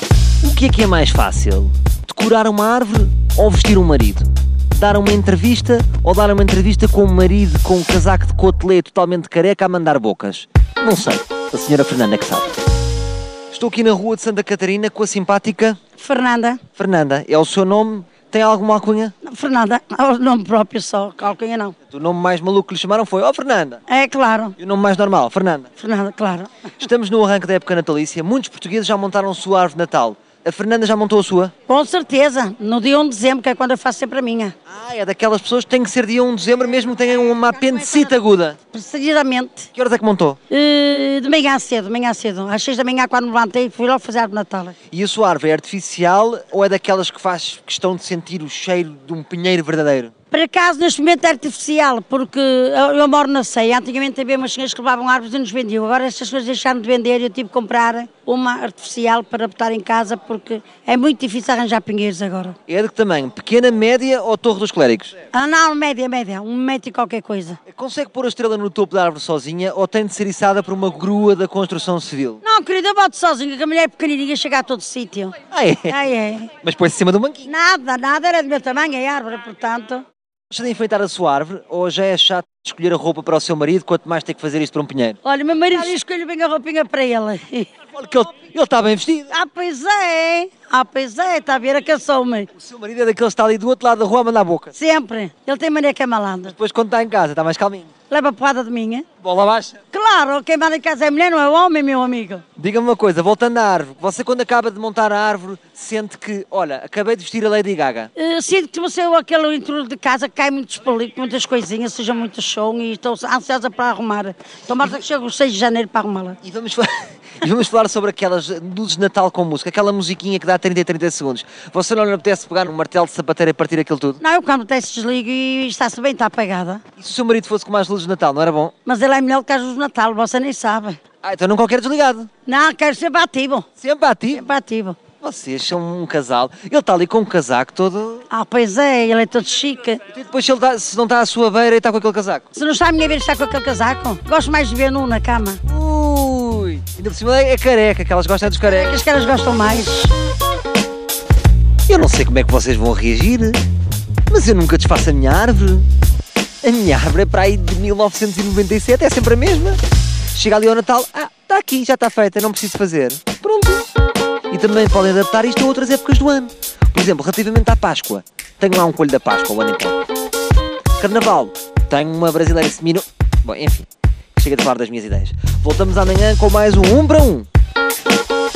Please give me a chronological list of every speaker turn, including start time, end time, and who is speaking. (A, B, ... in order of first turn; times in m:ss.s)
0:00.4-0:12.5 A
0:13.5-0:15.8 A
0:16.0-0:16.6 B
0:16.8-0:19.1 A
0:19.2-0:21.7 B
0:21.9-0:23.8 A
0:23.9-0:24.6 B
0:24.6-0:25.7 A
0:25.8-0:26.8 B
0:26.8-0:31.5 A
0:31.7-0:34.5 B
0:34.7-0:38.6 A
0:37.0-0:38.1 B
0:38.7-0:39.7 B
0:39.7-0:40.4 A
0:40.5-0:44.8 B
0:44.9-0:50.1 A
0:50.3-1:02.6 B
1:02.7-1:05.1 A
1:05.3-1:07.6 B
1:07.7-1:12.4 A
1:12.4-1:15.4 B
1:15.5-1:16.0 A
1:15.9-1:16.5 B
1:16.6-1:17.5 A
1:17.4-1:20.0 B
1:20.5-1:25.2 A
1:25.2-1:27.7 B
1:27.9-1:29.3 A
1:29.3-1:32.5 B
1:32.6-1:34.7 A
1:34.7-1:36.5 B
1:36.5-1:37.9 A
1:38.1-1:39.0 B
1:39.2-1:39.8 A
1:39.9-1:42.4 B
1:42.6-1:48.1 A
1:48.2-1:56.4 B
1:56.4-2:04.2 A
2:04.2-2:06.8 B
2:07.0-2:08.7 A
2:08.8-2:11.0 B
2:11.2-2:12.3 A
2:12.4-2:13.6 B
2:13.8-2:14.5 A
2:14.3-2:15.0 B
2:15.2-2:18.2 A
2:18.3-2:20.0 B
2:20.1-2:22.5 A
2:22.5-2:25.6 B
2:25.7-2:29.0 A
2:28.6-2:30.1 B
2:31.9-2:33.6 A
2:34.3-2:35.8 A
2:36.6-2:39.8 A
2:40.3-2:43.8 A
2:44.5-2:50.0 A
2:51.0-2:57.5 A